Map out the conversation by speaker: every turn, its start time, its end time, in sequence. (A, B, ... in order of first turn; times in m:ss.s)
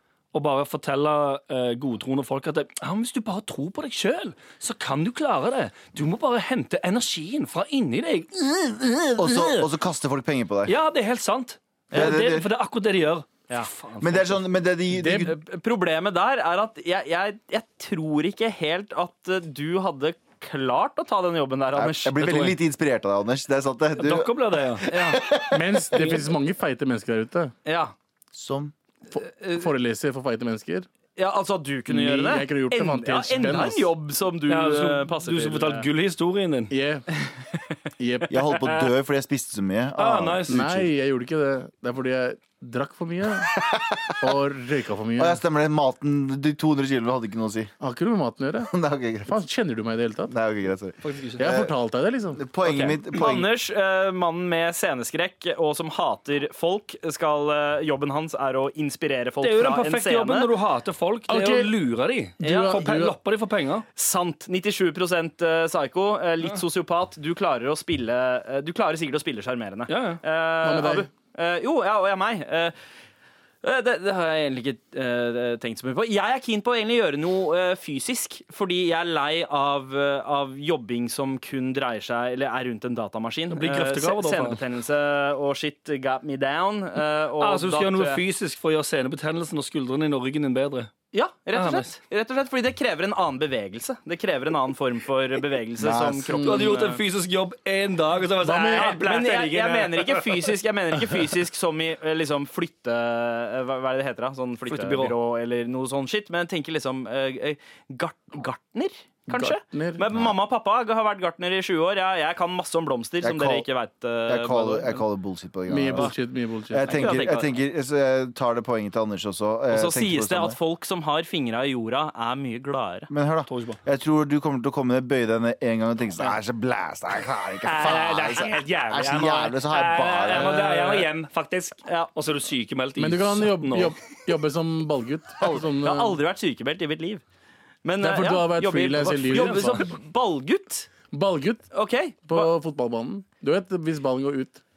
0:00.3-0:09.7 A
0:09.2-0:10.8 B
0:10.7-0:14.4 A
0:11.9-0:12.3 C
0:11.9-0:12.5 B
0:14.0-0:15.4 B
0:14.9-0:15.3 D
0:15.2-0:22.6 C
0:21.8-0:26.1 B
0:24.0-0:24.9 A
0:24.9-0:25.2 C
0:25.5-0:27.5 D
0:27.6-0:27.9 C
0:28.3-0:28.7 B
0:29.1-0:30.9 D
0:29.2-0:29.7 C
0:31.2-0:35.9 C
0:31.9-0:33.9 D
0:34.5-0:36.7 A
0:36.7-0:37.1 D
0:38.0-0:38.4 D
0:38.3-0:40.9 B
0:40.0-0:40.7 A
0:40.5-0:43.5 D
0:44.2-0:45.4 D
0:45.2-0:47.7 B
0:47.8-0:48.7 D
0:48.7-0:49.4 B
0:49.3-0:50.3 D
0:50.3-0:51.7 B
0:51.0-0:51.5 A
0:51.4-0:52.4 D
0:52.4-0:53.5 B
0:52.6-1:00.5 C
0:59.4-1:03.9 A
1:01.3-1:01.7 D
1:02.4-1:03.2 D
1:02.4-1:02.9 C
1:04.0-1:12.7 C
1:09.9-1:10.2 A
1:10.6-1:11.1 D
1:13.6-1:28.2 C
1:23.5-1:24.6 A
1:27.4-1:30.9 A
1:31.1-1:37.0 C
1:31.5-1:31.9 A
1:35.8-1:36.7 B
1:36.4-1:40.5 A
1:38.4-1:39.0 D
1:38.4-1:55.0 C
1:44.7-1:45.2 A
1:49.3-1:50.0 D
1:50.1-1:50.4 B
1:53.2-1:53.7 B
1:54.3-1:56.2 B
1:55.7-1:57.2 D
1:56.7-2:00.6 B
1:56.8-1:57.6 C
1:59.7-2:03.1 C
2:03.1-2:10.7 B
2:03.5-2:03.8 A
2:07.6-2:14.0 A
2:10.3-2:11.1 C
2:13.0-2:16.2 D
2:15.4-2:17.2 C
2:17.8-2:20.9 C
2:18.0-2:19.8 D
2:19.3-2:19.8 A
2:21.1-2:21.7 D
2:21.7-2:22.5 C
2:22.3-2:24.6 D